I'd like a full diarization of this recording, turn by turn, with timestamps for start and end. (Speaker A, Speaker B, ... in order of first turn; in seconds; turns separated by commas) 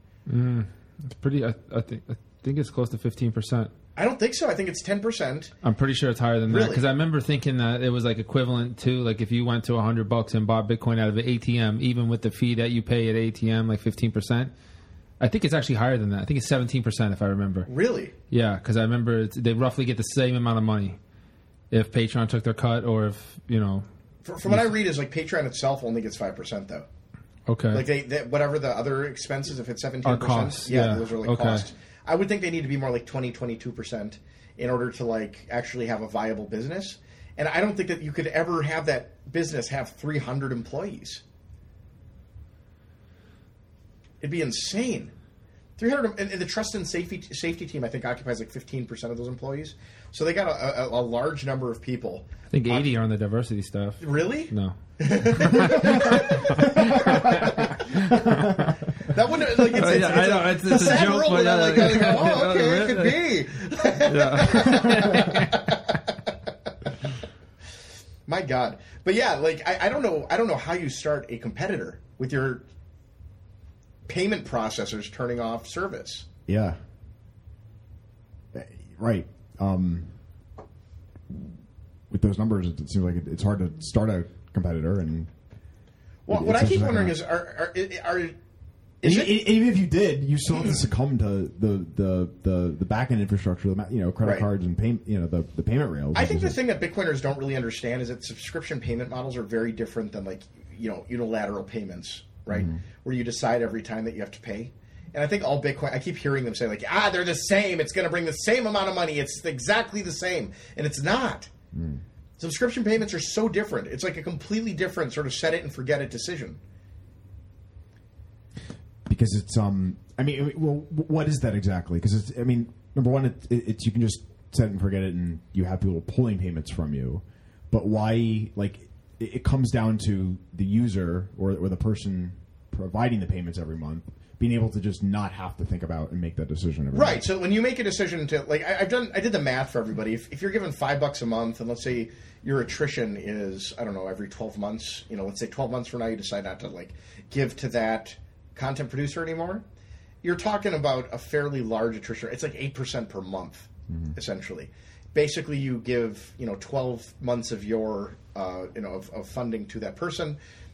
Speaker A: 0.3-3.7, Speaker B: 4.0-5.5, Speaker A: 5.6-14.5, Speaker B: 6.5-6.8, Speaker A: 15.2-17.7, Speaker B: 17.7-18.1, Speaker A: 18.3-21.0, Speaker A: 21.7-23.8, Speaker B: 24.2-26.9, Speaker A: 24.4-24.8, Speaker A: 27.5-27.9, Speaker B: 27.7-41.2, Speaker A: 30.0-31.6, Speaker B: 44.2-45.1, Speaker B: 45.8-52.9, Speaker A: 52.5-58.7, Speaker B: 54.0-58.2, Speaker C: 57.0-57.5, Speaker C: 58.1-58.5, Speaker B: 59.0-66.1, Speaker A: 59.6-63.3, Speaker A: 63.9-65.6, Speaker B: 68.3-72.6, Speaker B: 74.1-76.3, Speaker C: 76.5-76.8, Speaker C: 78.5-80.1, Speaker C: 82.1-85.3, Speaker B: 86.2-88.3, Speaker C: 86.3-87.2, Speaker B: 89.0-89.4, Speaker C: 89.0-96.6, Speaker B: 94.2-94.5, Speaker B: 96.1-111.5, Speaker C: 102.5-102.8, Speaker C: 111.7-112.0, Speaker B: 112.4-116.6, Speaker C: 119.0-137.2, Speaker B: 136.9-149.6, Speaker B: 150.2-160.4, Speaker C: 153.9-154.1